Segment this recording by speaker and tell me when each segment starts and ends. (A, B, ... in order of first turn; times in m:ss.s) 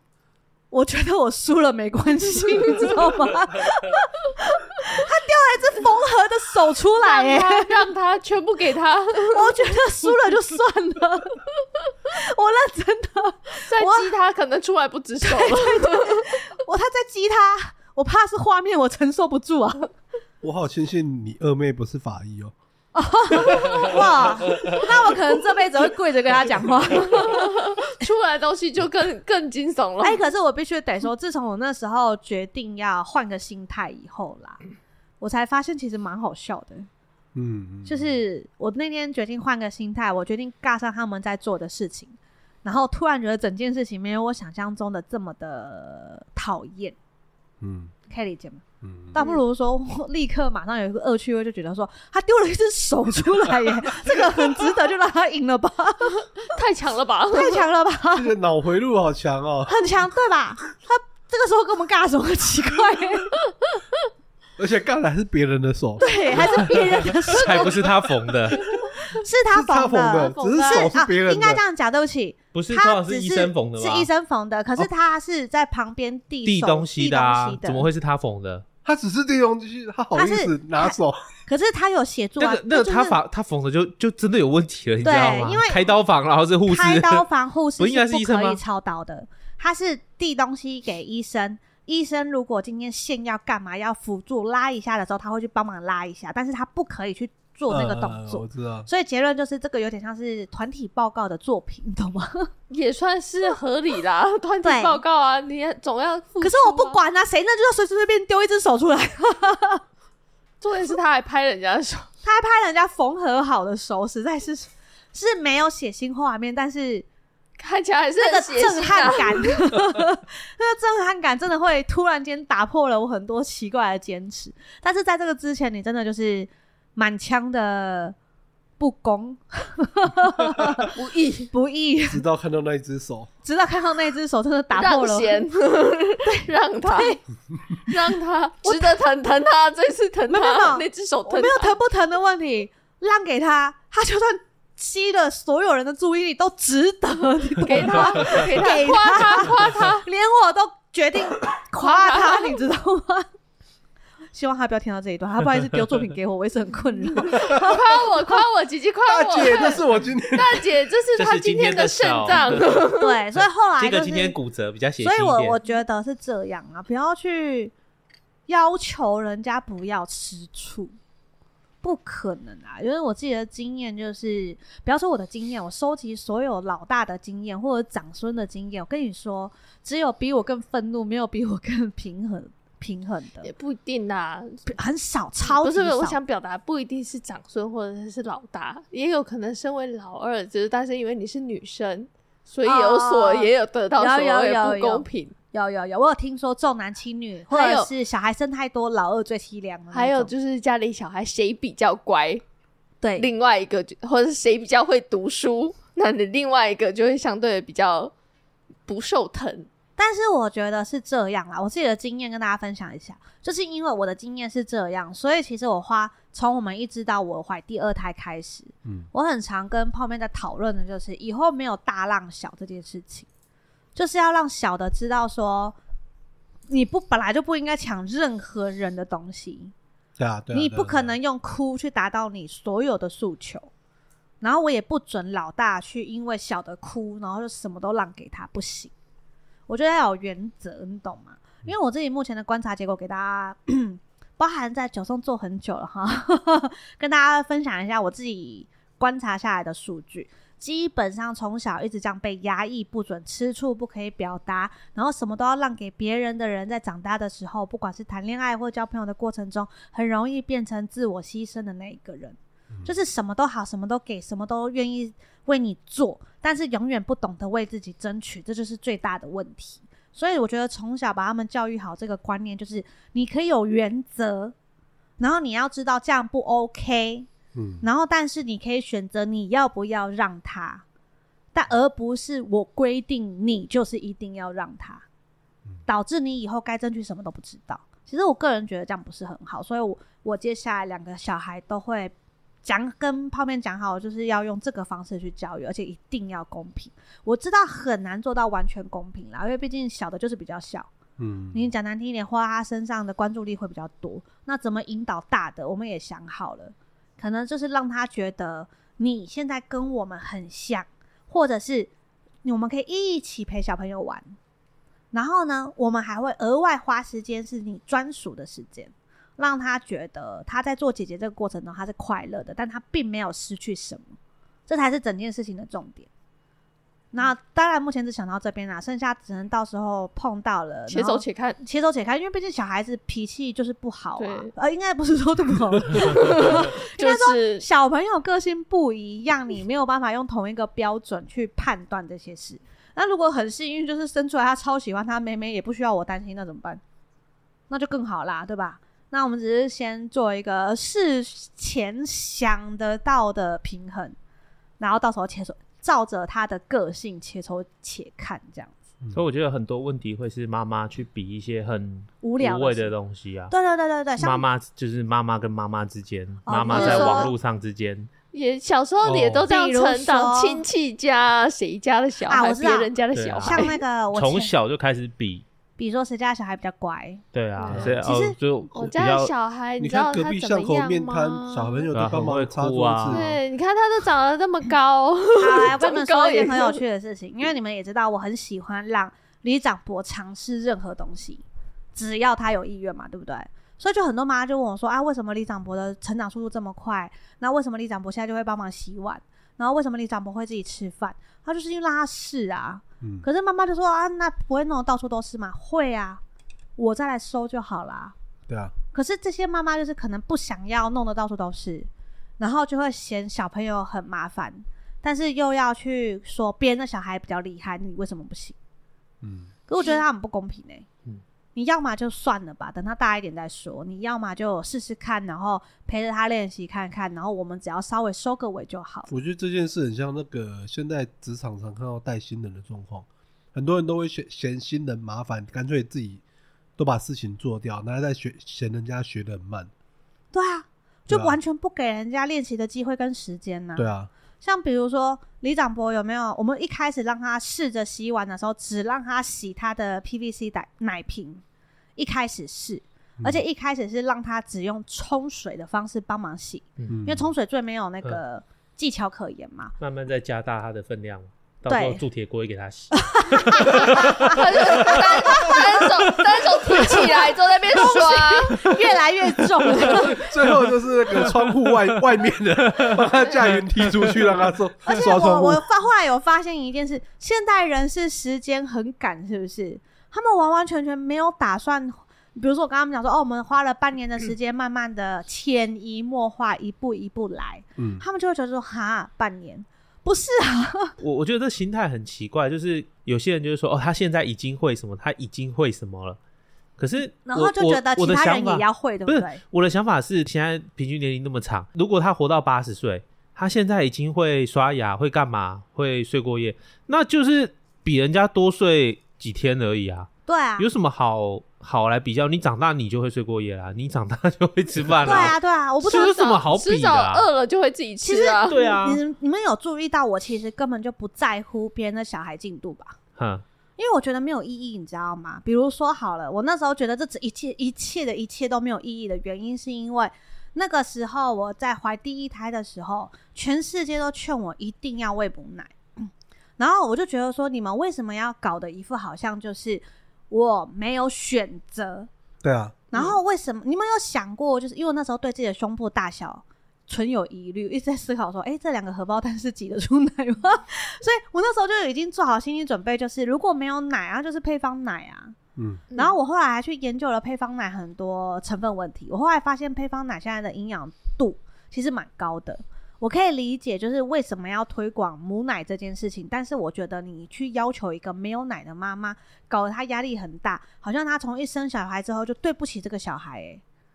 0:00.7-0:07.9 A
0:07.0-0:09.5 B
0:09.2-0:11.4 A
0:12.1-0:14.1 A
0:13.6-0:16.3 B
0:15.2-0:19.9 A
0:20.4-0:22.5 C
0:23.0-0:27.6 A
0:27.1-0:30.2 B
0:30.0-0:34.6 A
0:35.2-0:36.9 A
0:37.4-0:38.2 C
0:37.9-0:47.0 A
0:47.6-0:48.0 C
0:48.1-0:56.3 A
0:48.8-0:49.2 C
0:56.4-0:57.6 B
0:57.3-0:58.3 A
0:58.1-0:59.8 C
0:59.7-1:03.3 A
1:04.6-1:06.7 C
1:06.0-1:07.8 A
1:06.6-1:08.7 D
1:09.1-1:17.9 A
1:09.5-1:11.6 C
1:10.1-1:10.9 B
1:12.5-1:14.1 D
1:16.4-1:18.6 D
1:18.8-1:21.2 C
1:20.1-1:21.0 A
1:21.5-1:23.2 A
1:22.4-1:27.2 D
1:25.0-1:25.9 A
1:26.6-1:42.5 A
1:27.8-1:28.6 D
1:37.7-1:38.9 C
1:42.7-1:47.0 B
1:44.6-1:45.0 A
1:46.4-1:49.8 A
1:50.6-1:52.1 B
1:52.2-1:57.0 A
1:57.6-1:59.7 B
1:58.2-2:08.2 A
2:08.8-2:10.9 A
2:11.0-2:11.5 B
2:11.5-2:12.2 A
2:12.1-2:13.3 C
2:13.4-2:15.5 A
2:14.7-2:17.2 B
2:16.2-2:17.2 A
2:17.9-2:21.8 B
2:18.6-2:19.0 A
2:20.3-2:33.3 A
2:27.6-2:30.0 B
2:31.8-2:32.6 B
2:34.3-2:38.4 A
2:37.2-2:39.8 B
2:39.0-2:40.7 C
2:40.3-2:43.2 B
2:41.2-2:42.8 D
2:43.0-2:44.4 A
2:43.8-2:45.6 D
2:45.0-2:47.7 A
2:48.5-2:51.0 A
2:51.8-3:03.5 A
3:03.4-3:04.7 B
3:04.7-3:06.2 A
3:05.4-3:15.3 B
3:12.6-3:20.3 A
3:17.5-3:17.9 B
3:19.9-3:22.4 B
3:23.0-3:23.3 A
3:23.2-3:28.1 B
3:28.9-3:29.7 B
3:30.0-3:43.3 A
3:44.0-3:45.8 A
3:46.7-3:49.7 A
3:50.2-3:51.2 C
3:50.5-3:53.7 A
3:54.4-3:58.9 A
3:59.7-4:34.5 A
4:35.2-4:37.3 A
4:37.5-4:37.9 C
4:37.8-4:40.8 A
4:41.5-4:45.0 A
4:45.9-5:00.9 A
5:01.2-5:01.7 C
5:01.5-5:11.9 A
5:12.4-5:14.3 A
5:15.1-5:24.2 A
5:24.7-5:26.1 A
5:27.1-5:46.8 A
5:30.9-5:31.6 B
5:34.2-5:34.5 B
5:36.0-5:37.6 B
5:47.7-5:54.2 A
5:54.8-5:58.8 A
5:59.1-6:03.5 D
6:02.2-6:02.9 A
6:03.5-6:04.4 A
6:04.2-6:08.1 D
6:06.5-6:07.3 A
6:06.7-6:07.3 B
6:08.3-6:13.8 B
6:09.0-6:09.4 C
6:09.5-6:10.6 A
6:12.3-6:14.5 A
6:13.1-6:15.4 D
6:15.8-6:18.4 A
6:17.3-6:19.3 D
6:17.6-6:18.0 B
6:18.7-6:21.8 B
6:19.8-6:23.3 C
6:21.9-6:23.3 D
6:23.1-6:26.8 B
6:25.4-6:46.2 A
6:46.8-6:48.2 A
6:48.5-6:48.7 C
6:48.9-6:58.6 A
6:59.2-6:59.5 C
6:59.7-7:00.8 A
7:01.5-7:09.1 A
7:09.1-7:16.2 C
7:16.8-7:19.7 C
7:20.3-7:23.8 A
7:21.1-7:21.4 C
7:23.8-7:24.1 C
7:24.4-7:31.4 A
7:32.0-7:39.8 A
7:36.9-7:37.3 C
7:39.8-7:44.9 D
7:41.7-7:42.0 A
7:43.0-7:45.9 A
7:43.8-7:48.8 B
7:46.7-7:50.4 A
7:49.9-7:55.6 C
7:52.7-7:53.0 D
7:53.8-7:54.1 D
7:54.8-8:11.0 A
8:07.8-8:08.0 C
8:11.0-8:16.2 D
8:16.8-8:37.3 D
8:17.2-8:19.4 A
8:30.3-8:30.7 A
8:35.0-8:36.2 A
8:35.8-8:38.6 B
8:38.0-8:43.0 A
8:38.5-8:39.0 D
8:43.2-8:43.4 D
8:43.8-9:02.1 A
9:02.4-9:02.8 C
9:02.9-9:15.4 A
9:15.6-9:15.8 C
9:15.9-9:33.6 A